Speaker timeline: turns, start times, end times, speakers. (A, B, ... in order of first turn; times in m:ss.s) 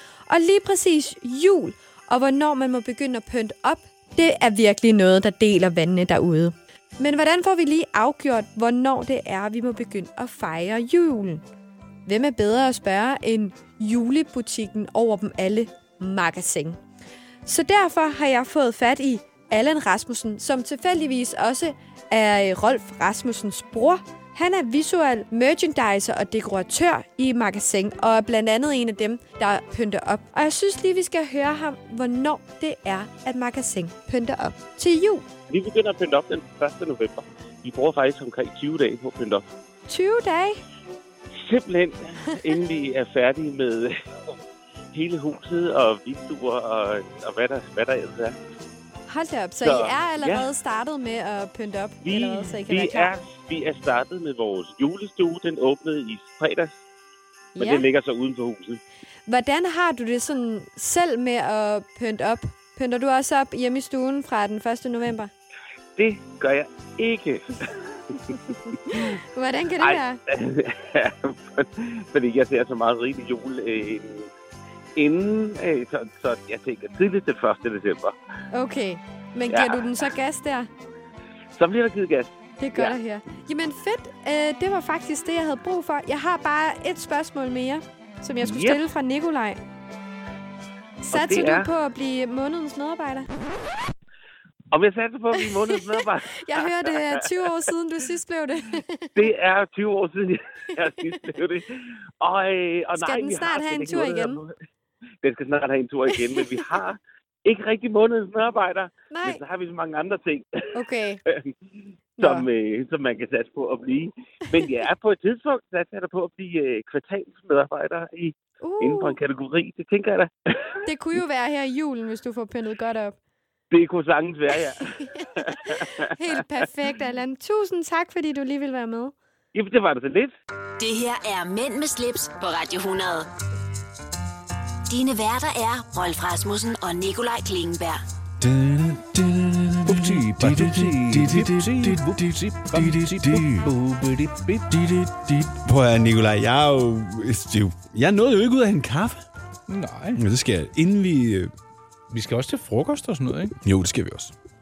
0:00.3-0:11.4 A
0:12.0-0:16.8 A
0:17.4-0:35.2 A
0:35.5-0:39.4 B
0:39.9-0:40.6 A
0:41.4-0:44.0 B
0:44.9-0:48.4 B
0:49.1-0:53.1 A
0:49.6-0:50.5 B
0:52.0-0:56.8 B
0:57.5-0:57.8 A
0:57.6-0:58.8 B
0:59.3-1:05.3 A
1:06.0-1:07.5 B
1:08.9-1:10.2 A
1:09.8-1:14.3 B
1:15.0-1:18.1 B
1:18.5-1:20.7 A
1:19.5-1:20.0 B
1:21.6-1:22.9 B
1:22.6-1:29.6 A
1:28.4-1:28.8 B
1:31.0-1:33.3 A
1:31.1-1:31.7 B
1:34.7-1:37.7 B
1:35.4-1:39.2 A
1:39.2-1:41.7 B
1:42.2-1:44.5 B
1:43.0-1:44.4 A
1:45.2-1:51.5 B
1:46.1-1:46.7 A
1:49.1-1:49.4 A
1:50.7-1:51.2 A
1:52.2-1:52.4 A
1:52.2-2:00.3 B
1:58.6-1:59.2 A
2:00.8-2:03.2 A
2:03.7-2:05.8 B
2:05.2-2:09.1 A
2:09.5-2:10.3 B
2:10.8-2:13.3 C
2:14.9-2:18.0 C
2:18.4-2:23.7 D
2:19.8-2:24.7 E
2:24.7-2:29.2 D
2:29.7-2:30.2 E
2:30.2-2:31.5 D
2:32.1-2:33.5 E
2:33.6-2:34.3 D